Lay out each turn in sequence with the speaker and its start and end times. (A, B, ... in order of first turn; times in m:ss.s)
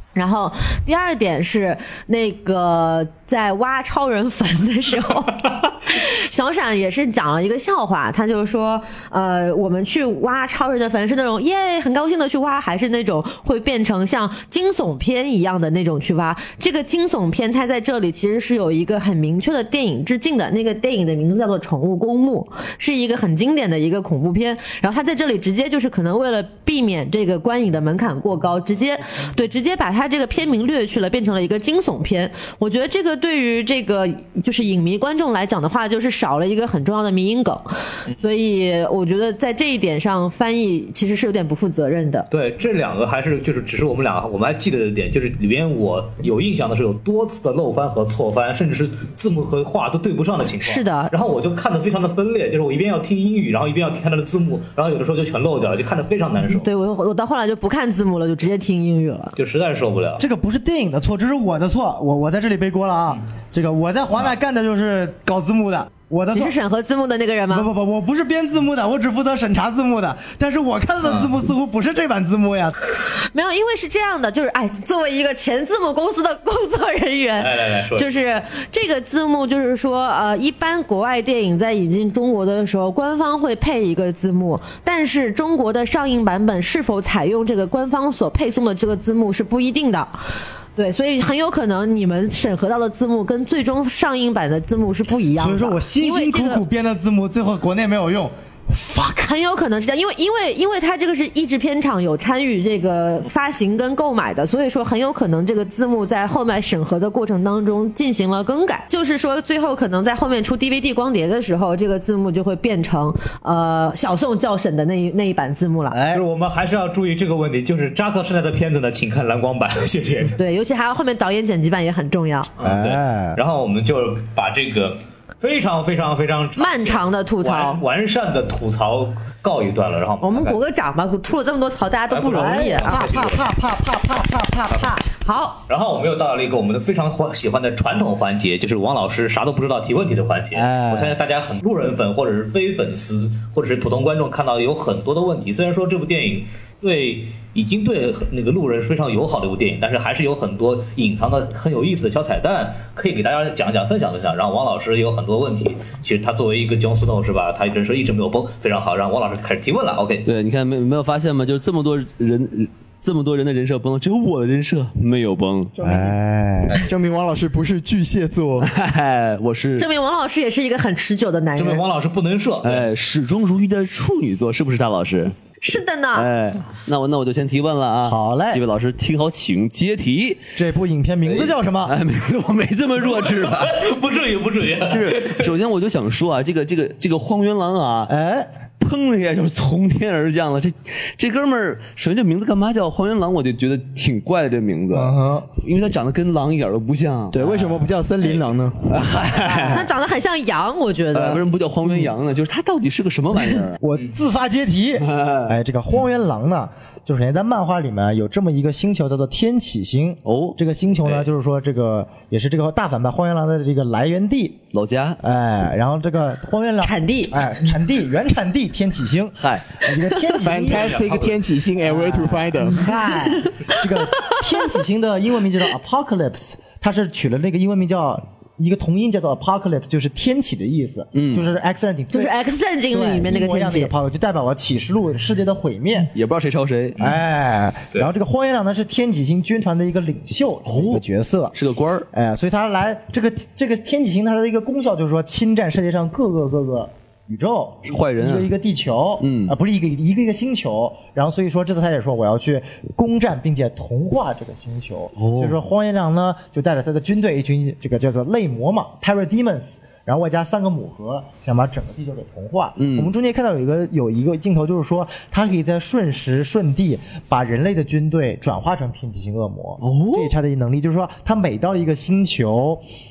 0:00.2-0:42.3 A
0:42.3-0:56.7 B
0:50.6-0:51.1 A
0:56.5-0:59.4 A
0:59.4-1:00.2 B
1:00.2-1:06.6 C
1:06.3-1:07.7 A
1:07.5-1:12.8 C
1:11.0-1:11.3 B
1:13.3-1:30.1 A
1:17.4-1:18.1 B
1:30.8-1:36.6 A
1:35.4-1:39.2 C
1:39.1-1:56.0 A
1:55.9-1:56.2 C
1:56.1-2:00.4 B
2:00.4-2:02.5 A
2:02.6-2:10.6 B
2:02.6-2:03.4 C
2:06.6-2:07.8 A
2:10.2-2:13.1 A
2:12.1-2:13.4 B
2:12.3-2:15.1 C
2:15.2-2:15.6 A
2:15.7-2:40.3 B
2:20.5-2:21.2 C
2:40.2-2:46.1 D
2:45.8-2:46.8 C
2:45.8-2:46.1 E
2:46.8-2:48.7 E
2:48.6-2:49.9 D
2:49.8-2:51.8 A
2:51.6-2:52.9 B
2:52.6-2:55.4 D
2:55.6-2:56.3 A
2:56.1-3:00.4 D
2:58.0-2:58.6 C
3:00.6-3:02.0 C
3:01.4-3:03.8 D
3:03.0-3:05.5 B
3:04.9-3:08.1 D
3:08.1-3:08.5 C
3:08.8-3:17.9 D
3:14.9-3:15.5 C
3:17.3-3:18.9 E
3:18.9-3:19.9 D
3:19.4-3:19.8 C
3:19.7-3:21.5 A
3:21.1-3:23.8 D
3:21.8-3:22.1 C
3:23.8-3:34.6 C
3:25.0-3:25.5 D
3:30.2-3:30.6 D
3:34.7-3:35.2 D
3:35.2-3:41.1 C
3:36.8-3:37.4 A
3:39.4-3:39.6 D
3:40.4-3:42.8 E
3:40.6-3:41.4 B
3:41.8-3:52.3 C
3:51.2-3:51.5 D
3:52.1-3:53.9 A
3:52.9-3:56.1 C
3:56.1-3:57.0 D
3:57.0-4:01.6 C
4:00.7-4:02.1 D
4:02.1-4:32.8 C
4:07.9-4:08.5 D
4:09.2-4:09.5 D
4:15.2-4:15.6 D
4:22.8-4:23.1 D
4:29.8-4:30.3 D